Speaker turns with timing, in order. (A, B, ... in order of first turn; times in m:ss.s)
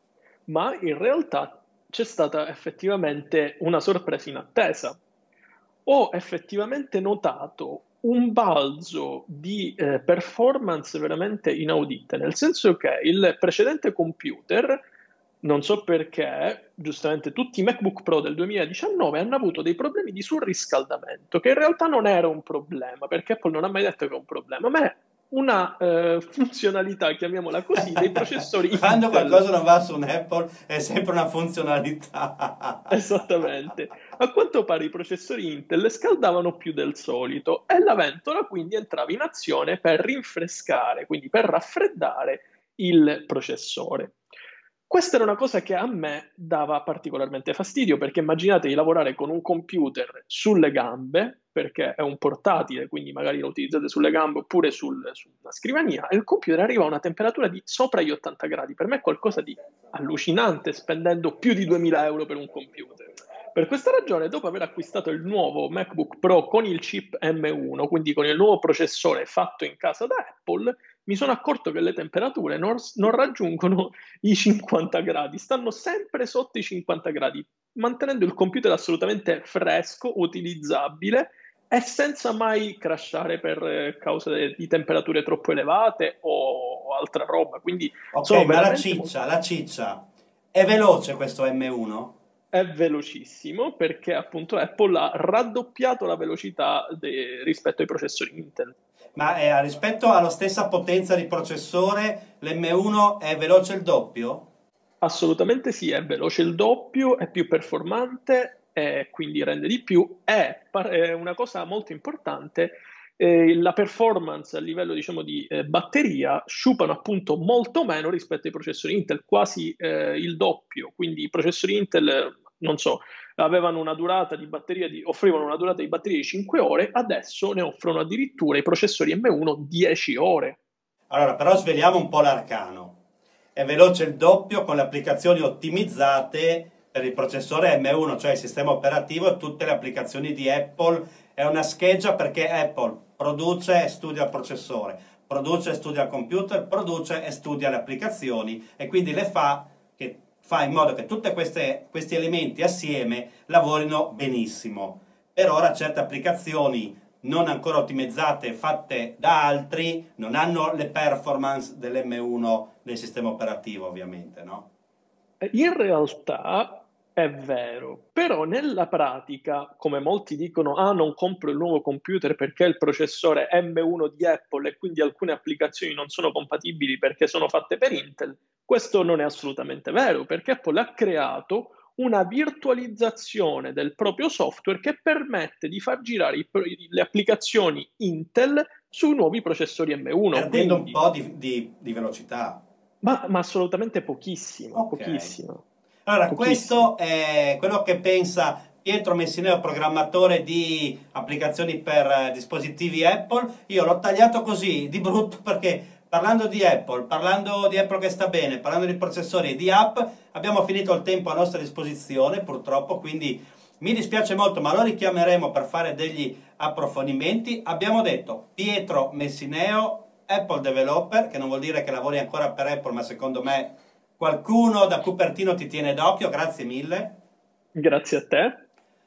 0:00.5-0:05.0 A
0:05.8-0:14.8 A
0:15.4-0:29.4 A
0:28.8-0:33.0 B
0:32.9-0:44.2 A
0:44.9-1:29.1 A
1:28.1-1:32.1 B
1:32.5-1:38.7 A
1:39.2-1:44.4 B
1:45.0-2:10.6 A
2:11.1-2:12.9 B
2:13.6-2:44.6 B
2:45.4-3:11.0 A
3:10.3-3:12.6 B
3:13.0-3:15.6 A
3:14.7-3:15.3 B
3:16.0-3:47.1 B
3:16.3-3:16.9 A
3:47.8-3:48.6 A